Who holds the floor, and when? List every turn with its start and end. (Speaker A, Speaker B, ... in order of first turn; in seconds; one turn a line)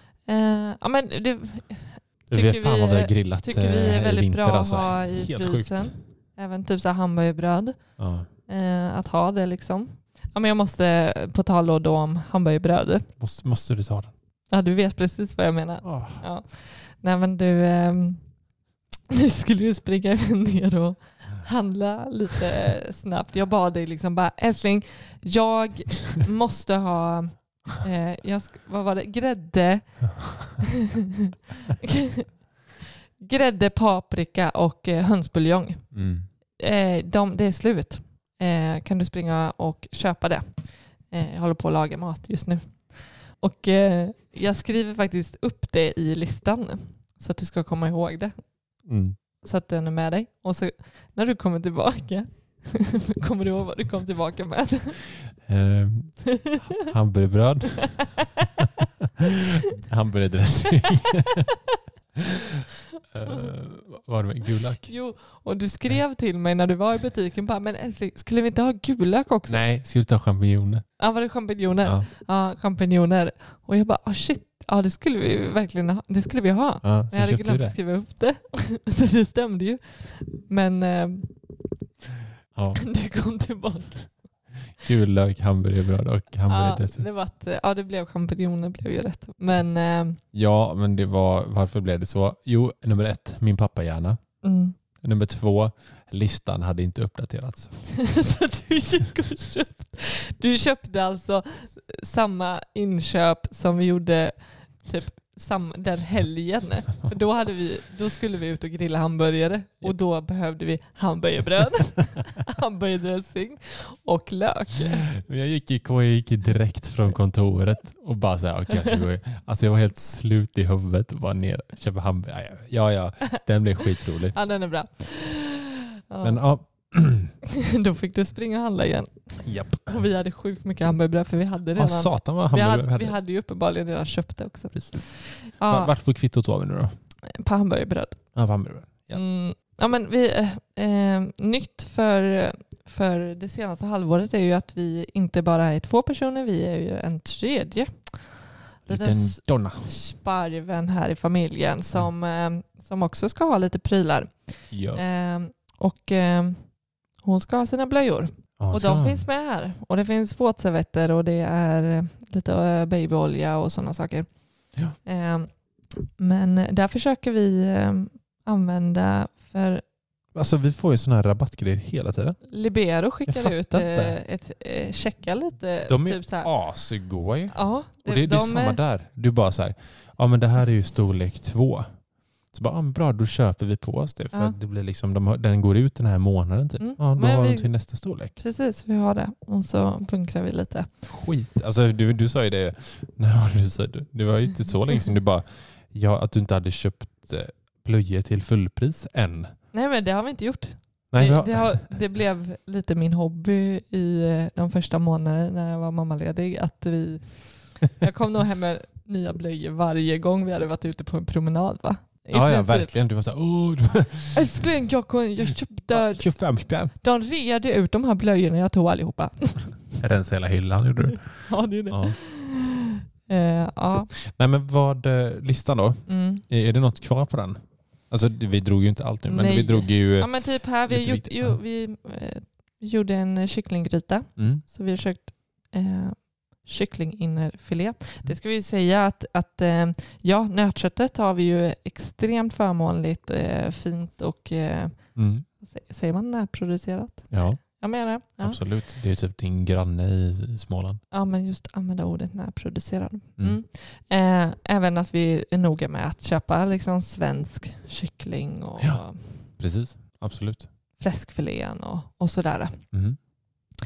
Speaker A: 0.2-13.1
Speaker B: 2.3-6.0
Speaker B: 8.0-8.3
Speaker B: 13.2-14.1
Speaker A: 14.5-18.3
Speaker B: 15.8-16.2
Speaker A: 19.1-30.6
Speaker A: 31.8-32.2
Speaker A: 33.2-48.8
Speaker B: 35.9-36.3
Speaker B: 48.8-49.2
Speaker A: 49.4-55.1
Speaker B: 55.4-58.2
Speaker B: 59.8-61.4
Speaker B: 63.1-65.0
Speaker A: 64.8-69.6
Speaker B: 69.5-71.0
Speaker A: 71.0-81.5
Speaker B: 76.8-77.8
Speaker B: 82.5-82.8
Speaker A: 82.8-84.2
Speaker B: 84.8-87.0
Speaker A: 86.5-90.2
Speaker B: 90.3-94.3
Speaker A: 94.4-94.7
Speaker B: 95.0-98.2
Speaker A: 98.0-115.1
Speaker B: 115.1-124.3
Speaker A: 124.3-126.9
Speaker B: 126.2-127.3
Speaker A: 127.8-135.9
Speaker B: 129.4-130.0
Speaker B: 131.8-133.2
Speaker B: 134.7-137.0
Speaker A: 137.3-138.3
Speaker B: 138.3-139.2
Speaker A: 139.1-169.8
Speaker B: 148.8-149.9
Speaker B: 154.7-155.0
Speaker B: 158.6-159.2
Speaker B: 170.3-174.2
Speaker A: 172.5-178.8
Speaker B: 175.9-188.3
Speaker A: 184.3-184.6
Speaker A: 186.8-190.9
Speaker B: 191.1-199.5
Speaker A: 199.7-212.9
Speaker B: 201.1-201.9
Speaker B: 212.3-214.6
Speaker A: 214.3-219.8
Speaker B: 215.9-216.9
Speaker B: 220.0-222.2
Speaker A: 221.5-224.1
Speaker B: 224.1-231.6
Speaker A: 226.1-226.4
Speaker A: 229.3-248.6
Speaker B: 234.4-234.6
Speaker B: 245.1-245.4
Speaker B: 247.3-251.0
Speaker A: 251.1-259.5
Speaker B: 258.8-260.7
Speaker A: 261.0-262.9
Speaker B: 262.9-263.2